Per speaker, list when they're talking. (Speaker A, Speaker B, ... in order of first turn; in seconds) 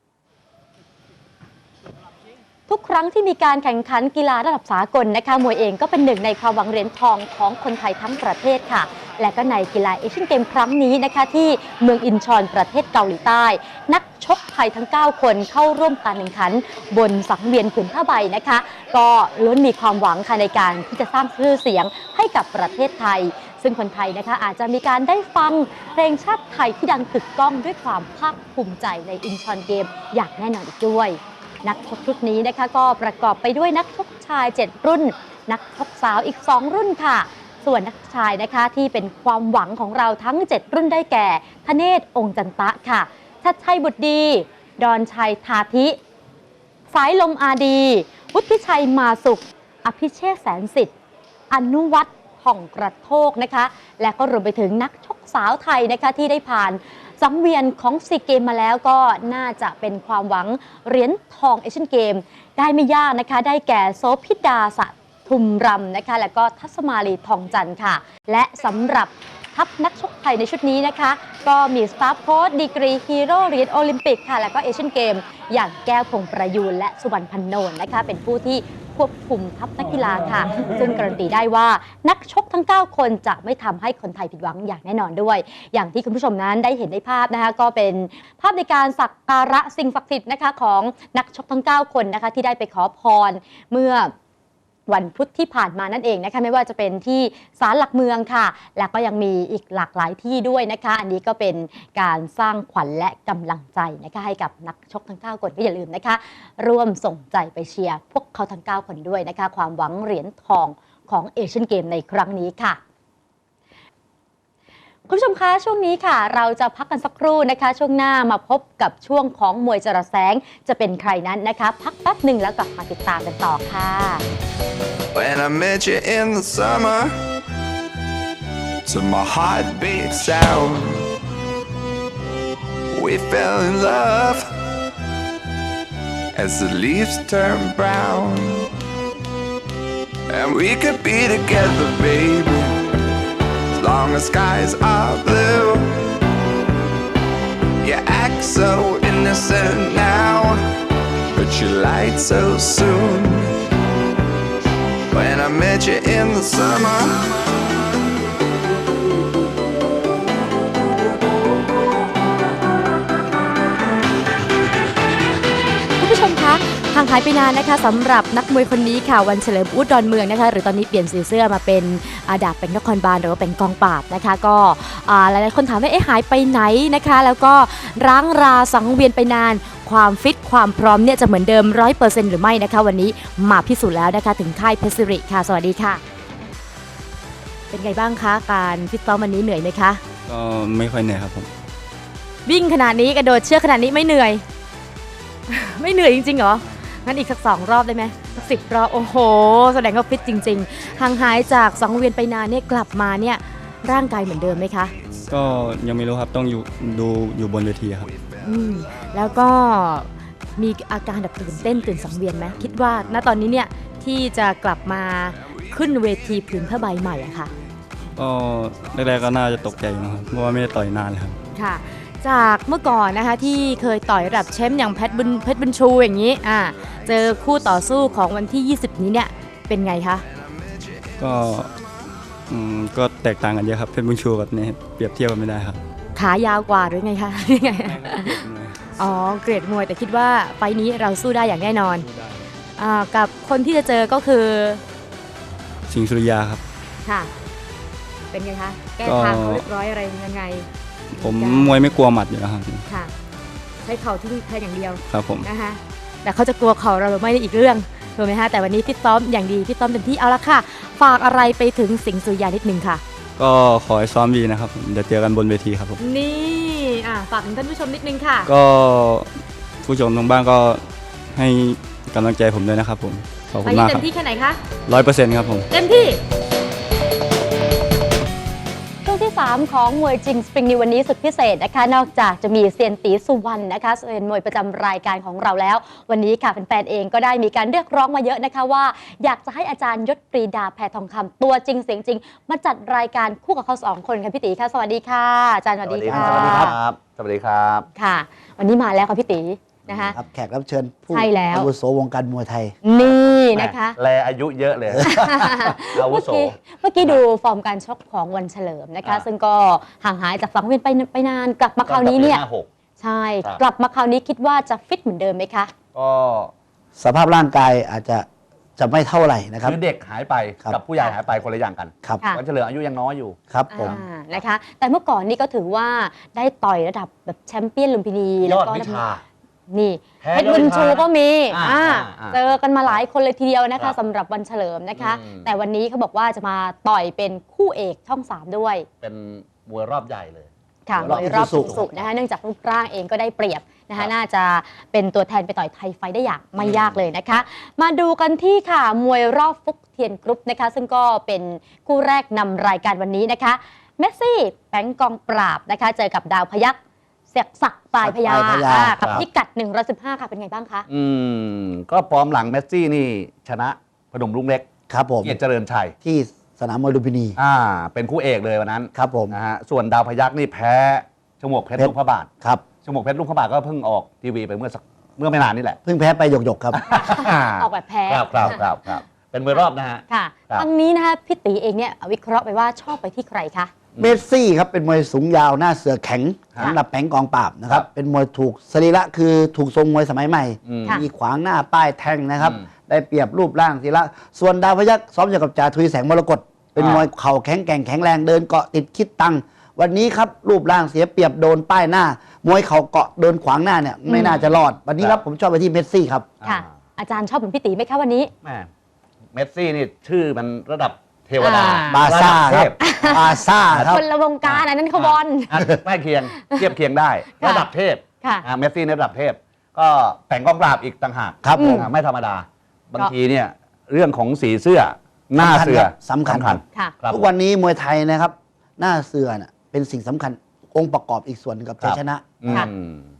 Speaker A: 2.7-46.0, 46.9-50.9, 51.5-94.1, 94.9-112.8, 115.1-124.2, 166.0-186.0, 187.7-190.0, 192.5-194.4, 195.5-204.9, 208.4-217.5, 221.5-230.2, 236.2-238.4, 239.0-242.1, 242.8-244.8, 247.0-247.3, 248.3-252.0, 252.9-253.1, 253.8-263.0, 266.0-268.5, 273.6-274.6, 275.7-276.2, 279.0-296.8, 297.9-300.2, 301.1-301.7, 302.8-304.0, 305.0-312.4, 313.0-315.7, 323.7-329.0, 329.7-338.9, 340.9-356.8, 357.3-360.9, 377.0-378.6, 380.1-383.7, 406.4-408.3, 411.4-412.0, 412.8-415.6, 417.4-417.7, 421.6-421.9
Speaker B: 125.1-127.2, 128.8-131.1, 132.9-134.5, 136.3-138.7, 140.3-142.8, 143.8-146.0, 147.8-150.6, 151.3-153.6, 155.1-157.3, 205.2-205.8, 208.0-208.4, 230.3-231.7
Speaker C: 190.3-191.5, 205.3-208.1, 218.2-221.4, 231.2-231.7, 232.5-235.8, 237.6-238.9, 242.0-242.4, 245.9-246.6, 249.0-249.6, 251.1-252.8, 255.1-255.5, 263.4-266.0, 268.5-274.1, 274.9-275.7
Speaker D: 295.8-297.9, 299.9-300.2, 303.5-307.2, 311.9-312.7, 315.9-316.5, 319.6-324.0, 328.4-329.2, 330.2-333.0, 335.0-335.5, 339.0-342.1, 346.6-347.1, 360.9-364.7, 365.2-365.9, 367.4-372.3, 372.8-375.8, 376.7-380.7, 384.0-384.2, 390.7-391.0, 392.4-392.6, 396.8-397.1, 404.2-405.2, 408.4-408.7, 409.3-427.3, 431.8-433.1
Speaker E: 296.1-296.8, 300.1-302.7, 317.0-318.3, 318.8-319.8, 323.5-324.0, 341.0-341.8, 358.0-359.2, 364.9-365.4, 366.0-367.4, 368.9-369.4, 371.8-372.6, 375.9-376.8, 384.0-406.3, 411.9-414.0, 421.4-421.9, 425.4-432.7